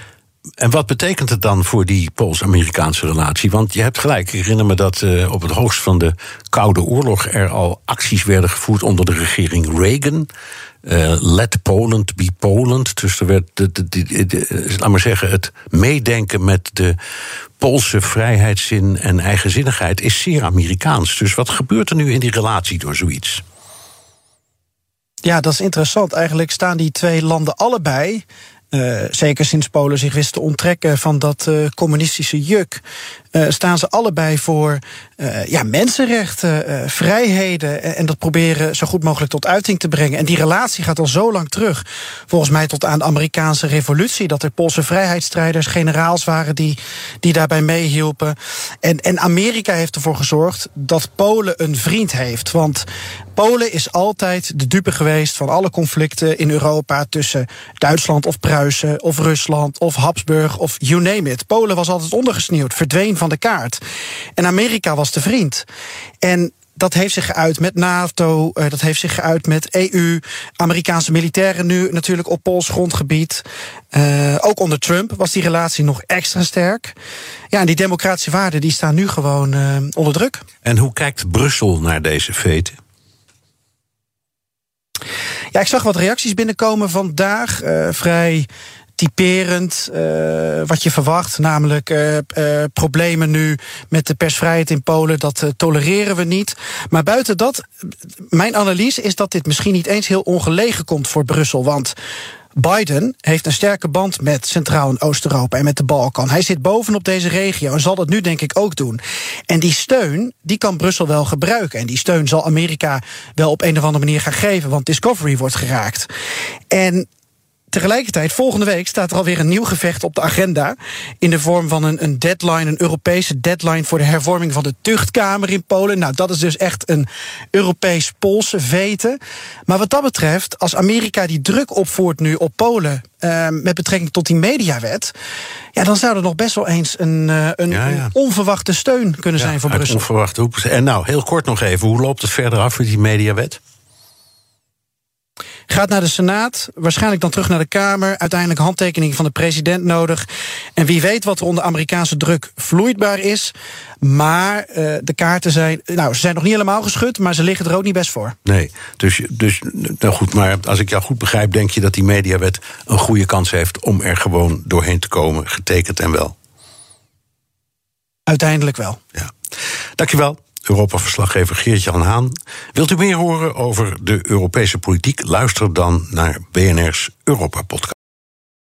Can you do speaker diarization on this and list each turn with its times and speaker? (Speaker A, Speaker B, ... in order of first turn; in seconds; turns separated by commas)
Speaker A: 0.6-10.3, Speaker A: 10.8-17.0, Speaker A: 17.6-23.4, Speaker B: 25.2-32.8, Speaker B: 33.3-63.8, Speaker B: 64.4-65.7, Speaker B: 66.2-76.9, Speaker B: 77.5-80.4, Speaker A: 80.6-82.8, Speaker B: 85.5-88.5, Speaker B: 89.0-97.7, Speaker B: 98.3-101.9, Speaker B: 102.5-116.1, Speaker B: 116.7-117.1, Speaker B: 117.7-135.1, Speaker B: 135.8-140.0, Speaker A: 137.7-138.1, Speaker A: 139.4-143.6, Speaker B: 145.7-150.2, Speaker B: 150.8-158.3, Speaker A: 158.4-166.3, Speaker B: 168.3-169.0, Speaker A: 170.0-177.9